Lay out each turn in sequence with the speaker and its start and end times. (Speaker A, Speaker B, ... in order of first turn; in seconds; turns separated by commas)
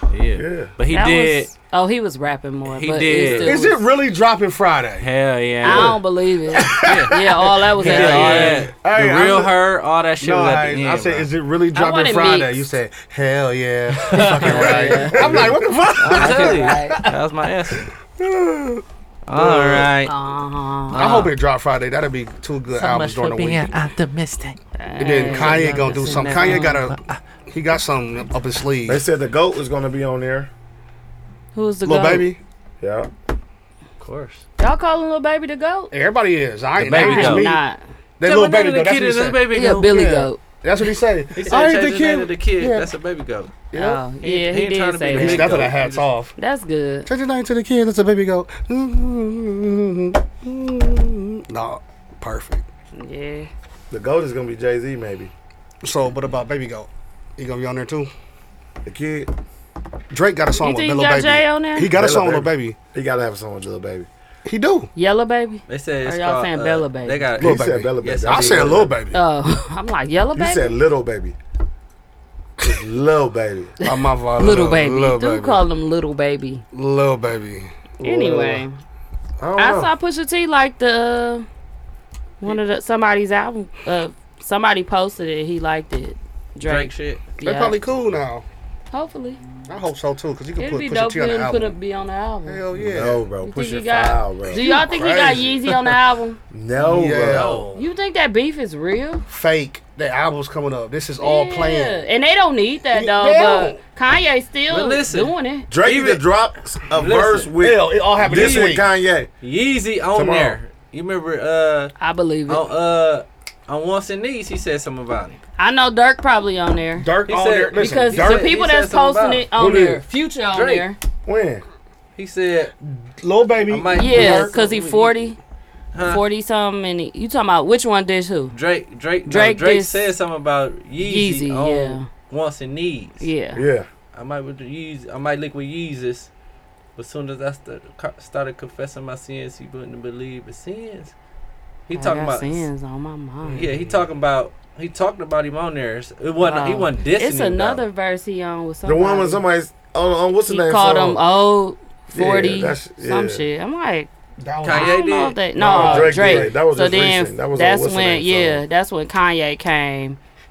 Speaker A: 0.1-1.5, Speaker B: 0.4-0.7, Speaker C: 0.9-3.8, Speaker A: 2.7-3.6, Speaker D: 3.3-5.1, Speaker A: 5.0-6.0, Speaker D: 5.6-6.0, Speaker C: 5.6-8.7, Speaker D: 6.5-7.1, Speaker A: 6.8-7.2, Speaker D: 7.7-9.6, Speaker A: 7.8-11.3, Speaker D: 10.2-17.2, Speaker C: 11.7-12.7, Speaker A: 14.1-14.8, Speaker C: 14.1-15.4, Speaker B: 14.3-15.7, Speaker A: 16.0-17.9, Speaker C: 16.1-17.0, Speaker D: 18.2-19.9, Speaker A: 19.3-20.1, Speaker C: 20.1-21.3, Speaker A: 20.9-21.4, Speaker D: 20.9-23.7, Speaker A: 22.8-24.6, Speaker C: 24.8-26.8, Speaker D: 25.0-29.0, Speaker A: 25.1-27.1, Speaker B: 28.9-30.5, Speaker C: 31.5-32.3, Speaker D: 31.8-32.4, Speaker B: 32.8-33.1, Speaker A: 34.0-34.5, Speaker C: 34.6-35.9, Speaker D: 35.9-37.6, Speaker A: 36.8-37.5, Speaker C: 37.0-37.8, Speaker D: 38.2-42.9, Speaker A: 38.2-40.1, Speaker C: 39.5-40.4, Speaker A: 41.4-43.6, Speaker D: 43.7-44.0, Speaker C: 43.7-45.7, Speaker A: 44.2-46.1, Speaker D: 45.1-46.3, Speaker C: 46.4-47.1, Speaker D: 47.1-52.6, Speaker C: 52.9-53.5, Speaker B: 53.9-55.3, Speaker D: 55.8-58.1, Speaker B: 58.9-59.3, Speaker D: 60.1-62.8, Speaker C: 60.6-61.9, Speaker B: 61.9-64.1, Speaker D: 64.5-64.9, Speaker C: 65.0-67.3, Speaker A: 65.7-68.9, Speaker B: 67.4-68.9, Speaker D: 67.4-69.2, Speaker C: 69.1-70.8, Speaker B: 70.3-71.4, Speaker B: 72.6-73.7, Speaker C: 73.8-76.6, Speaker D: 73.8-75.6, Speaker D: 76.7-77.7, Speaker C: 78.0-78.7, Speaker B: 78.0-78.6, Speaker B: 79.4-79.9, Speaker C: 79.6-81.5, Speaker C: 82.4-87.8, Speaker A: 86.6-87.2, Speaker D: 87.4-88.5, Speaker C: 88.9-89.4, Speaker D: 89.7-91.8, Speaker C: 90.6-92.6, Speaker D: 92.5-93.2, Speaker B: 92.8-94.6, Speaker C: 93.4-96.4, Speaker D: 94.5-96.0, Speaker B: 96.5-97.6, Speaker D: 96.8-97.8, Speaker A: 97.2-97.7, Speaker C: 97.8-99.2, Speaker D: 99.3-101.9, Speaker C: 101.2-105.7, Speaker D: 102.9-103.8, Speaker A: 104.7-106.2, Speaker B: 105.7-109.3, Speaker A: 106.9-107.5, Speaker D: 107.6-108.9, Speaker A: 108.2-108.8, Speaker A: 109.4-111.9, Speaker B: 110.1-110.6, Speaker C: 112.0-112.7, Speaker A: 112.5-115.4, Speaker C: 115.6-117.1, Speaker D: 117.0-118.5, Speaker A: 117.3-119.5, Speaker C: 117.7-121.0, Speaker B: 119.6-120.0, Speaker D: 119.6-120.0, Speaker A: 120.5-120.9, Speaker B: 121.3-121.6, Speaker A: 122.2-122.8, Speaker D: 122.8-124.5, Speaker A: 123.7-125.1, Speaker C: 123.9-125.4, Speaker A: 125.9-126.2, Speaker C: 126.0-128.6, Speaker A: 128.5-133.3, Speaker C: 129.3-130.1, Speaker C: 131.0-132.1, Speaker C: 133.2-133.6, Speaker B: 133.6-133.9, Speaker A: 134.1-136.3, Speaker A: 137.0-141.1, Speaker A: 141.9-142.7, Speaker C: 141.9-143.7, Speaker A: 143.5-147.8, Speaker C: 146.4-149.4, Speaker B: 148.8-151.2, Speaker C: 150.5-154.1, Speaker B: 152.1-153.4, Speaker D: 154.4-155.0, Speaker A: 154.6-155.4, Speaker C: 154.7-160.2, Speaker D: 155.6-156.5, Speaker B: 155.6-158.6